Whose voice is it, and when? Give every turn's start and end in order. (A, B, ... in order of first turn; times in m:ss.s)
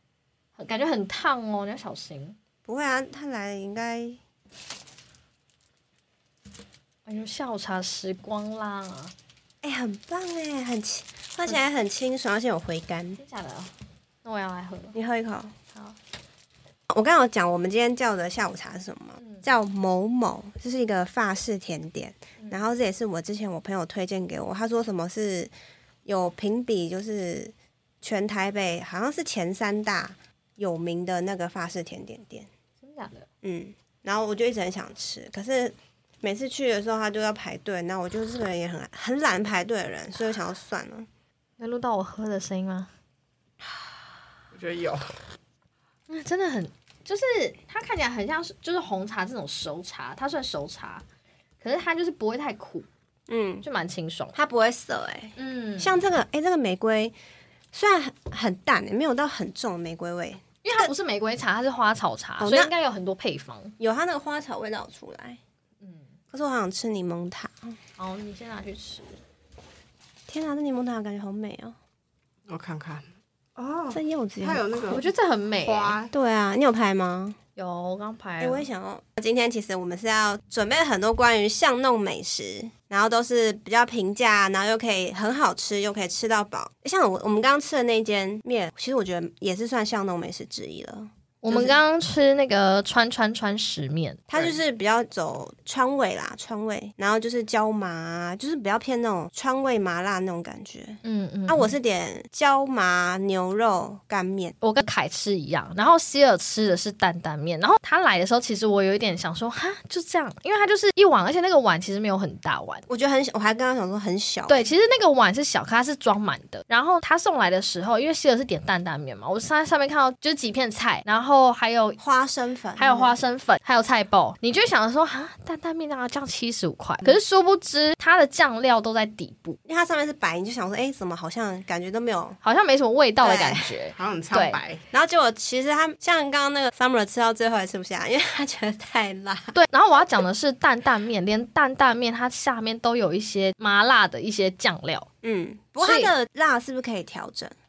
0:00.6-0:02.4 A
0:02.6-0:04.2 B
0:07.0-0:09.1 A
0:09.6-0:13.2 B
0:13.2-0:13.7 A
0:14.2-0:14.9 A
0:14.9-0:15.6 B
0:16.9-0:25.5 B
0:19.2-0:19.4 A
0:26.0-0:32.5 B
0:32.8-0:33.3 A
0:33.4-0:41.1 B
0:41.6-0:42.9 A
0:44.5-0:45.1 C
0:46.1-0:51.0 A
0:51.6-0:52.8 A
0:53.3-0:53.6 B
0:53.6-0:54.4 A
0:54.3-0:57.1 B
0:55.4-0:55.9 A
0:57.7-1:00.9 B
1:00.6-1:03.7 A
1:02.4-1:02.7 B
1:03.8-1:05.4 B
1:06.3-1:07.8 B
1:08.0-1:09.0 A
1:10.3-1:11.8 B
1:12.5-1:15.0 C
1:13.9-1:15.0 B
1:14.9-1:16.0 A
1:15.6-1:16.1 C
1:16.1-1:17.4 B
1:17.6-1:18.6 A
1:18.4-1:31.8 B
1:31.4-1:34.2 A
1:34.3-1:44.6 B
1:41.0-1:41.7 A
1:44.6-1:52.8 A
1:52.9-1:54.6 B
1:54.5-2:02.0 A
2:02.0-2:03.1 B
2:02.8-2:09.6 A
2:09.6-2:12.4 B
2:12.4-2:14.6 A
2:13.2-2:13.7 B
2:13.9-2:14.8 C
2:14.9-2:19.6 B
2:19.5-2:25.1 A
2:25.2-2:27.6 B
2:25.8-2:26.1 A